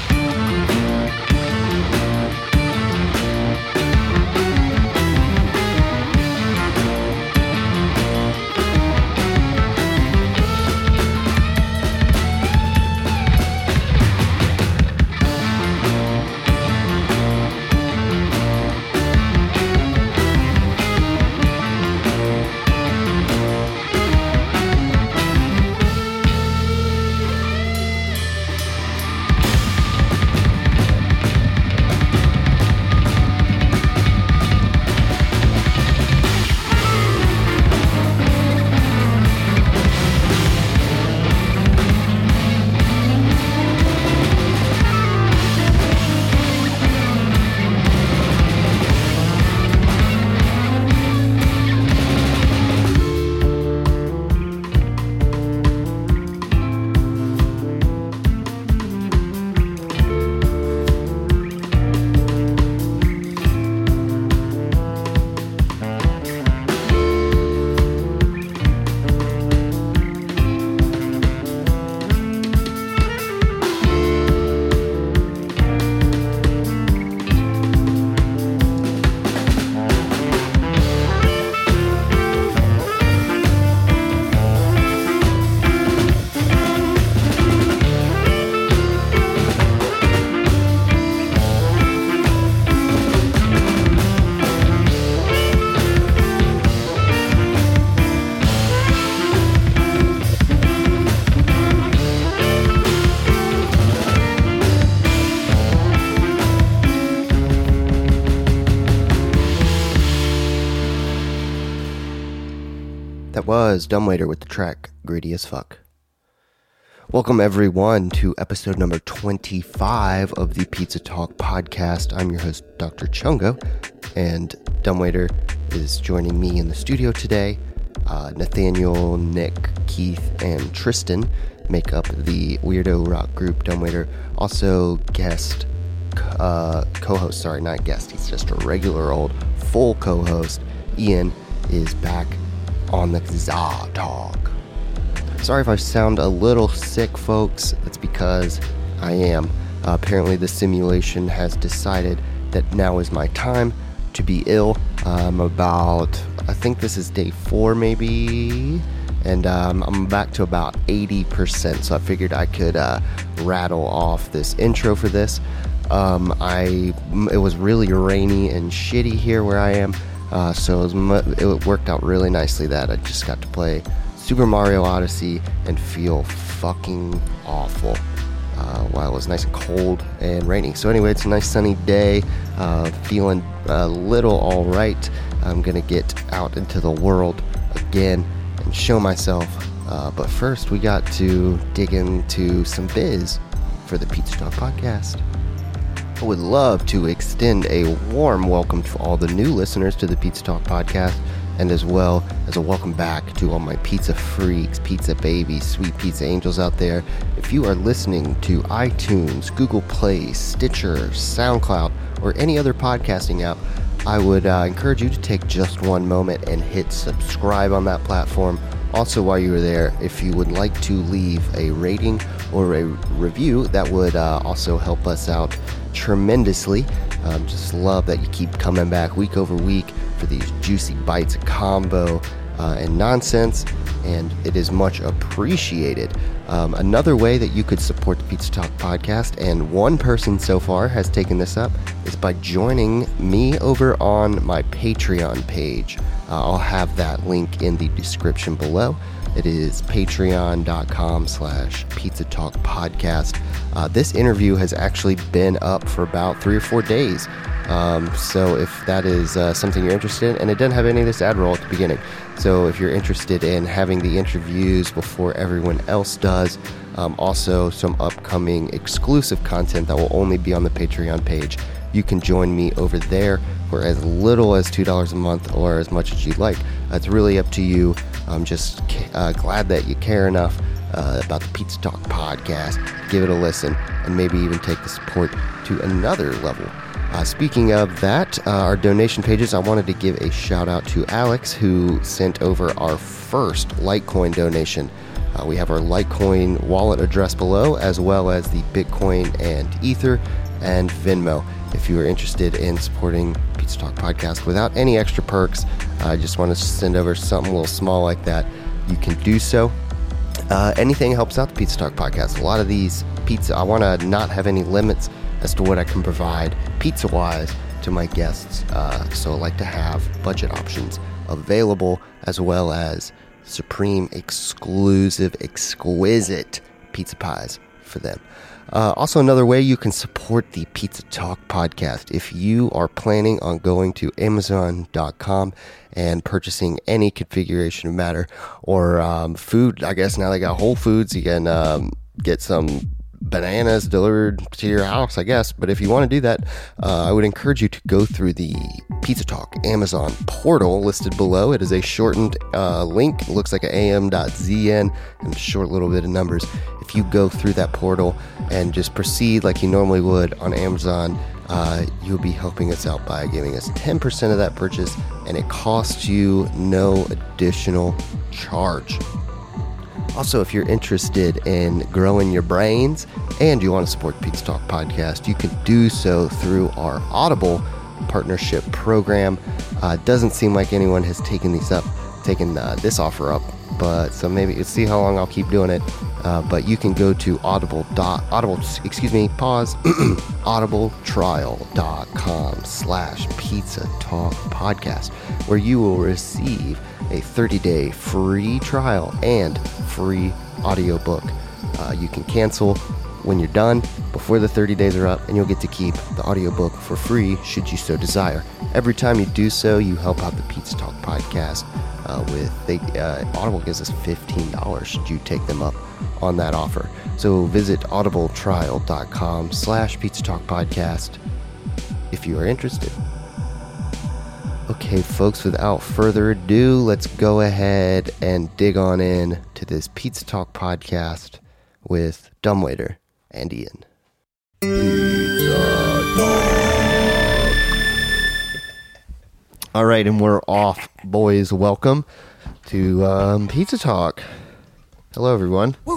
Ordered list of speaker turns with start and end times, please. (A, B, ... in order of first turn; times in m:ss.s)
1:53.3-1:55.8 A
1:57.1-2:03.6 A
2:04.1-2:24.6 A
2:25.4-3:15.2 A
3:16.2-5:09.8 A
5:10.5-6:09.0 A
6:10.1-7:01.2 A
7:02.1-7:03.0 A
7:04.7-7:13.8 A
7:14.8-7:16.4 A
7:19.7-7:22.0 A
7:22.6-7:24.2 A
7:25.1-7:25.8 A